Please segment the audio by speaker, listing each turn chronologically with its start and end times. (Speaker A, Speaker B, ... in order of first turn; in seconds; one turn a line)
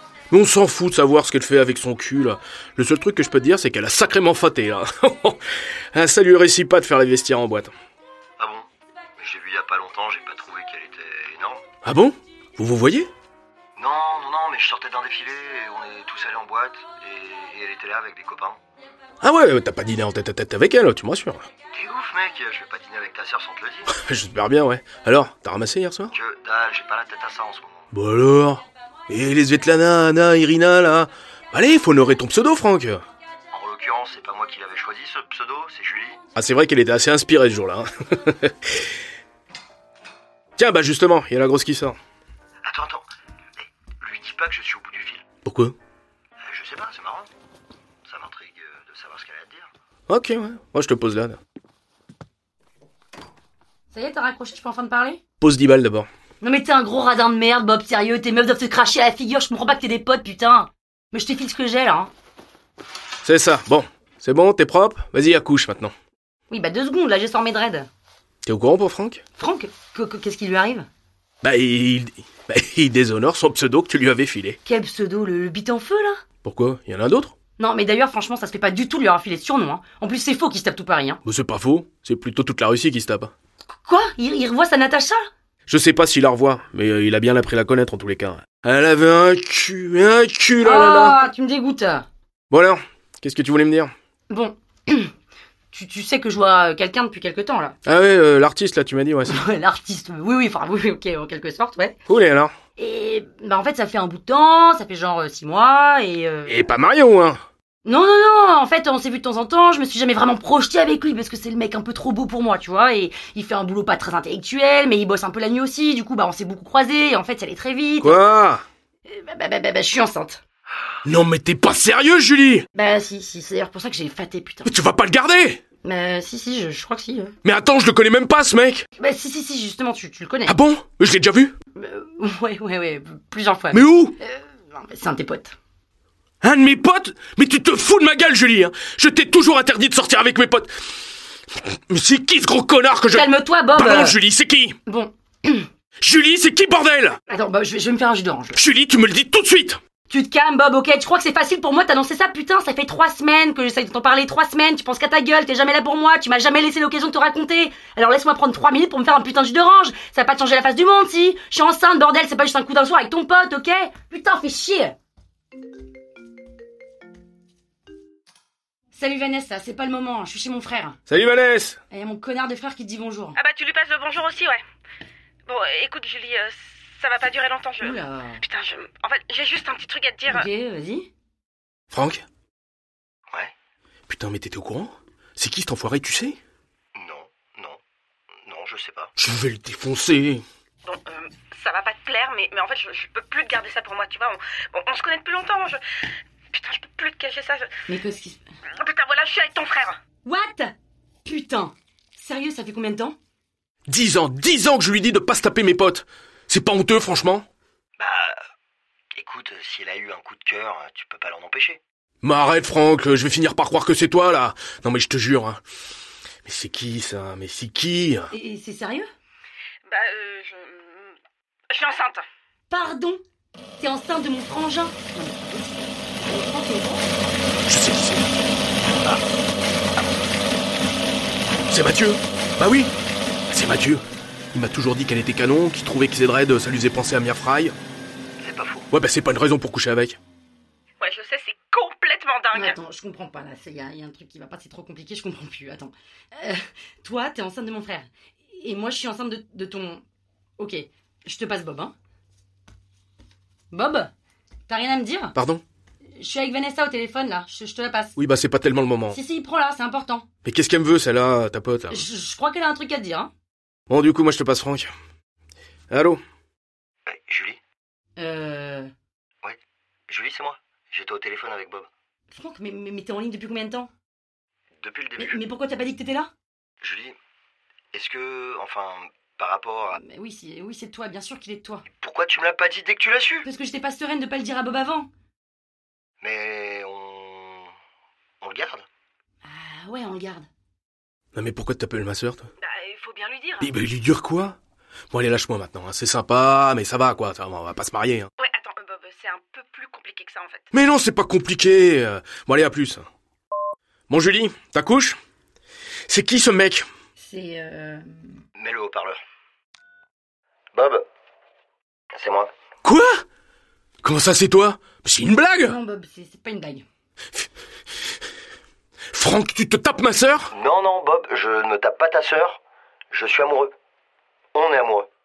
Speaker A: 0.3-5.4
Speaker A: 5.9-7.7
Speaker B: 8.4-11.6
Speaker A: 11.8-13.1
Speaker B: 13.8-18.6
Speaker A: 19.2-21.5
Speaker B: 21.7-23.9
Speaker A: 23.9-26.1
Speaker B: 26.1-27.9
Speaker A: 27.9-33.0
Speaker B: 33.5-36.2
Speaker A: 36.3-38.8
Speaker A: 40.6-42.0
Speaker B: 42.6-43.1
Speaker B: 43.6-45.2
Speaker A: 45.4-45.8
Speaker B: 46.4-47.3
Speaker B: 48.0-49.7
Speaker A: 50.1-51.4
Speaker C: 53.9-55.2
Speaker A: 55.4-56.1
Speaker C: 56.4-62.1
Speaker A: 63.2-65.9
Speaker C: 66.5-67.9
Speaker A: 68.4-69.2
Speaker C: 69.4-70.9
Speaker A: 71.4-74.6
Speaker C: 74.6-76.2
Speaker A: 76.4-77.3
Speaker C: 77.6-81.2
Speaker A: 81.2-83.3
Speaker C: 83.8-85.3
Speaker A: 85.7-91.2
Speaker C: 90.6-92.0
Speaker A: 92.5-93.9
Speaker C: 94.3-95.1
Speaker C: 95.7-97.8
Speaker A: 97.8-99.4
Speaker C: 99.3-102.0
Speaker A: 102.1-102.5
Speaker C: 102.8-106.6
Speaker A: 106.5-107.4
Speaker C: 107.8-118.4
Speaker A: 118.0-118.6
Speaker C: 119.0-120.4
Speaker A: 121.0-122.7
Speaker C: 122.7-124.7
Speaker A: 124.6-125.6
Speaker C: 125.8-127.3
Speaker A: 127.4-128.8
Speaker C: 129.0-130.6
Speaker A: 130.5-131.5
Speaker C: 131.7-135.6
Speaker A: 133.7-134.2
Speaker A: 136.4-140.7
Speaker A: 141.6-144.8
Speaker C: 143.1-144.2
Speaker C: 144.8-145.7
Speaker A: 146.0-147.2
Speaker C: 147.3-148.6
Speaker A: 148.5-149.8
Speaker C: 150.1-164.9
Speaker C: 168.9-171.0
Speaker A: 171.1-171.8
Speaker C: 171.9-173.4
Speaker D: 173.4-174.6
Speaker D: 175.5-180.4
Speaker C: 177.8-178.4
Speaker C: 180.3-181.1
Speaker A: 181.9-182.2
Speaker A: 184.1-186.4
Speaker B: 186.9-187.8
Speaker B: 188.4-189.1
Speaker A: 189.2-190.4
Speaker D: 190.8-195.8
Speaker D: 196.5-197.7
Speaker C: 197.9-198.4
Speaker D: 198.8-200.0
Speaker C: 200.2-200.7
Speaker C: 201.2-203.2
Speaker A: 203.9-207.4
Speaker B: 208.0-208.4
Speaker B: 209.1-211.8
Speaker A: 212.2-215.6
Speaker A: 216.4-218.3
Speaker C: 218.3-219.1
Speaker D: 219.9-221.2
Speaker D: 221.7-222.2
Speaker C: 222.7-223.2
Speaker C: 223.8-227.0
Speaker A: 227.7-228.3
Speaker A: 231.7-232.9
Speaker A: 233.5-237.7
Speaker B: 238.4-238.9
Speaker A: 238.9-240.2
Speaker D: 241.0-242.8
Speaker C: 242.5-250.0
Speaker C: 250.6-251.9
Speaker C: 253.7-254.1
Speaker C: 254.7-255.3
Speaker A: 255.3-255.6
Speaker C: 256.2-258.2
Speaker A: 258.2-259.2
Speaker C: 259.1-260.2
Speaker A: 260.4-262.0
Speaker C: 261.9-263.3
Speaker A: 263.9-264.9
Speaker A: 265.9-266.2
Speaker B: 267.1-267.6
Speaker C: 268.2-268.9
Speaker B: 269.4-271.9
Speaker C: 272.3-273.9
Speaker B: 274.8-275.4
Speaker C: 275.2-276.3
Speaker B: 276.8-277.2
Speaker B: 277.9-280.0
Speaker C: 279.9-281.8
Speaker B: 282.0-283.5
Speaker C: 283.4-285.1
Speaker B: 286.2-287.7
Speaker B: 288.4-288.9
Speaker C: 289.4-290.5
Speaker A: 291.3-292.5
Speaker D: 292.6-293.7
Speaker A: 293.6-294.6
Speaker A: 295.1-298.3
Speaker D: 298.4-300.7
Speaker A: 300.7-303.1
Speaker A: 304.1-305.2
Speaker A: 306.1-306.9
Speaker C: 307.2-308.4
Speaker B: 308.6-309.2
Speaker B: 310.7-311.0
Speaker B: 312.1-312.5
Speaker A: 312.8-313.2
Speaker A: 314.0-315.8
Speaker C: 315.6-316.8
Speaker A: 319.1-320.5
Speaker B: 320.5-322.6
Speaker B: 323.1-323.7
Speaker B: 324.5-325.1